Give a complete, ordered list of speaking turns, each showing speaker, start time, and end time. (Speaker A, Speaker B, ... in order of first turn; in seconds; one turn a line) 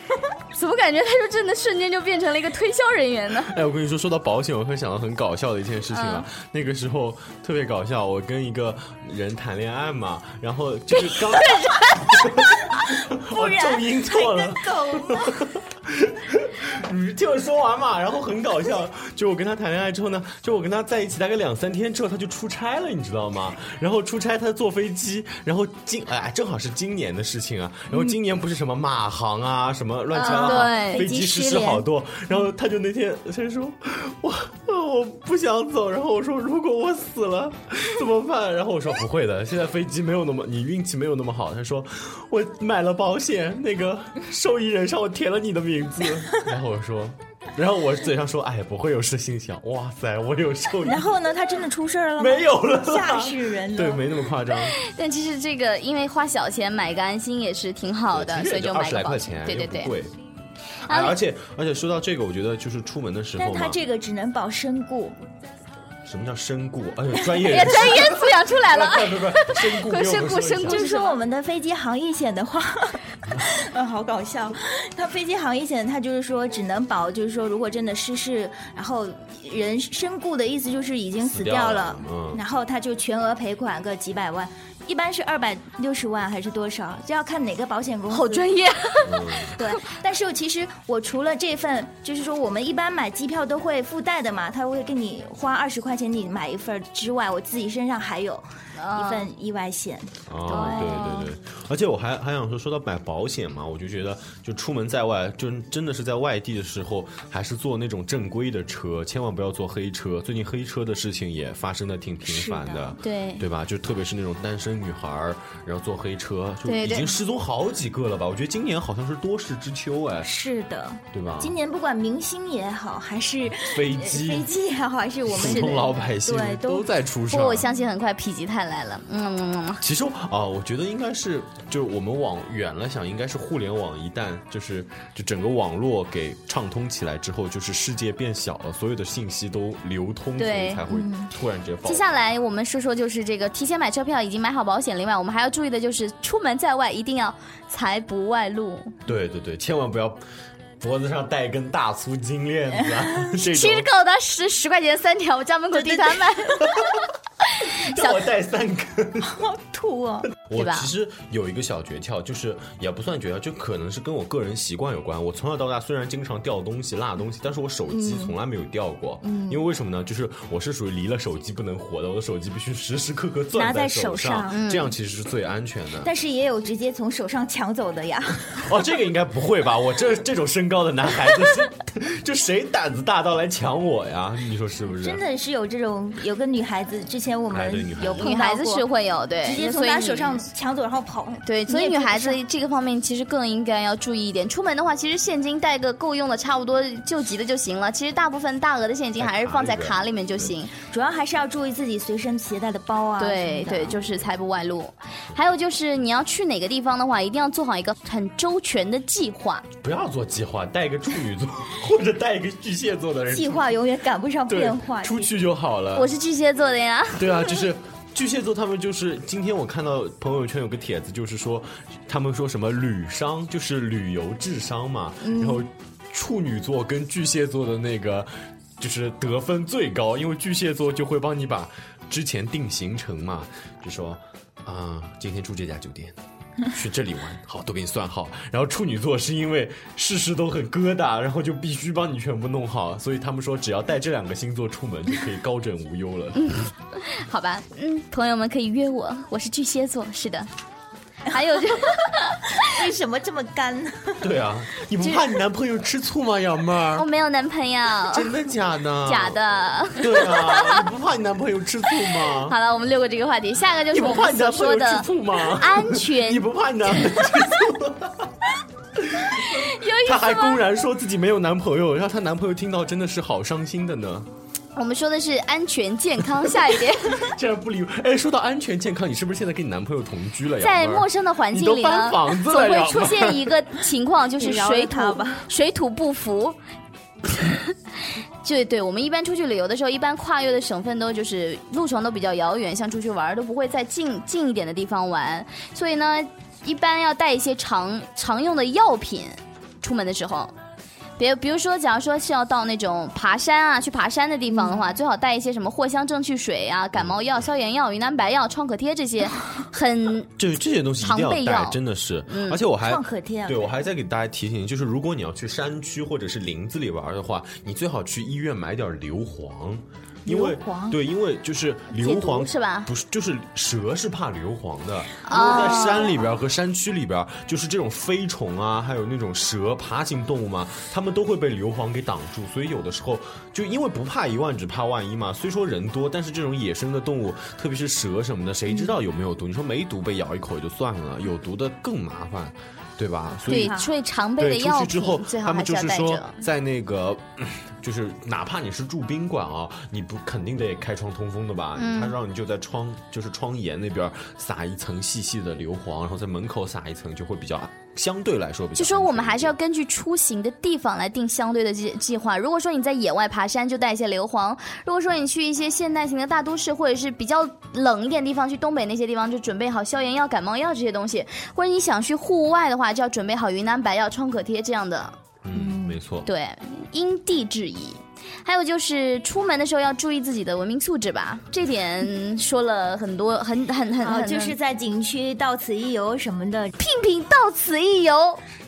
Speaker A: 0.5-3.5
Speaker B: 3.5-51.1
Speaker A: 5.9-6.2
Speaker A: 11.3-11.9
Speaker C: 13.3-15.4
Speaker C: 30.1-32.4
Speaker A: 30.2-31.0
Speaker C: 50.8-54.1
Speaker B: 52.2-54.8
Speaker A: 54.7-59.9
Speaker B: 58.1-60.2
Speaker A: 60.9-61.1
Speaker B: 60.9-63.8
Speaker C: 63.4-65.2
Speaker B: 66.0-70.9
Speaker A: 67.5-71.2
Speaker C: 70.7-88.5
Speaker B: 81.2-82.4
Speaker A: 88.1-89.7
Speaker B: 89.0-89.6
Speaker C: 89.5-101.3
Speaker A: 98.8-99.2
Speaker B: 100.3-120.3
Speaker A: 100.5-101.2
Speaker C: 112.3-113.0
Speaker A: 113.0-113.4
Speaker A: 116.6-117.2
Speaker C: 120.2-126.9
Speaker B: 121.1-121.5
Speaker B: 123.5-124.5
Speaker B: 125.3-127.7
Speaker A: 125.3-125.8
Speaker A: 127.3-129.8
Speaker B: 129.8-142.0
Speaker A: 140.4-140.8
Speaker C: 140.9-141.3
Speaker A: 141.8-148.9
Speaker B: 149.1-150.2
Speaker B: 150.8-153.9
Speaker A: 153.4-156.9
Speaker A: 157.6-158.2
Speaker B: 157.7-159.4
Speaker C: 159.2-160.3
Speaker B: 160.3-176.1
Speaker A: 160.5-160.9
Speaker C: 167.9-168.3
Speaker C: 169.2-169.6
Speaker C: 173.5-174.7
Speaker A: 174.5-174.9
Speaker C: 176.0-178.7
Speaker B: 178.6-185.2
Speaker C: 185.0-188.8
Speaker B: 187.5-188.3
Speaker A: 188.2-190.4
Speaker C: 189.4-192.4
Speaker A: 191.4-200.7
Speaker B: 199.2-200.5
Speaker C: 200.8-204.0
Speaker A: 203.2-209.6
Speaker B: 209.8-213.7
Speaker C: 213.3-215.3
Speaker B: 214.5-216.1
Speaker A: 215.9-217.6
Speaker B: 217.2-246.5
Speaker C: 225.2-225.7
Speaker A: 246.3-250.5
Speaker A: 251.2-252.7
Speaker C: 252.6-254.3
Speaker B: 254.2-257.1
Speaker A: 256.9-258.3
Speaker B: 258.1-259.4
Speaker A: 259.0-260.8
Speaker B: 260.0-262.6
Speaker A: 262.2-267.0
Speaker B: 263.9-268.3
Speaker B: 268.9-274.3
Speaker A: 269.4-270.6
Speaker A: 274.8-277.3
Speaker B: 276.4-283.5
Speaker A: 280.6-286.6
Speaker C: 284.4-285.5
Speaker A: 287.2-287.8
Speaker A: 288.4-300.5
Speaker A: 301.2-310.3
Speaker C: 304.5-304.9
Speaker B: 310.4-343.8
Speaker A: 311.0-312.6
Speaker C: 312.8-313.7
Speaker C: 320.2-321.0
Speaker A: 321.9-322.9
Speaker A: 325.2-326.1
Speaker C: 325.3-326.0
Speaker A: 343.5-346.4
Speaker C: 343.5-343.9
Speaker B: 344.4-359.6
Speaker A: 351.8-352.1
Speaker A: 358.8-375.2
Speaker B: 375.4-376.3
Speaker C: 375.5-376.0
Speaker A: 376.2-384.5
Speaker C: 384.0-386.7
Speaker A: 386.8-388.4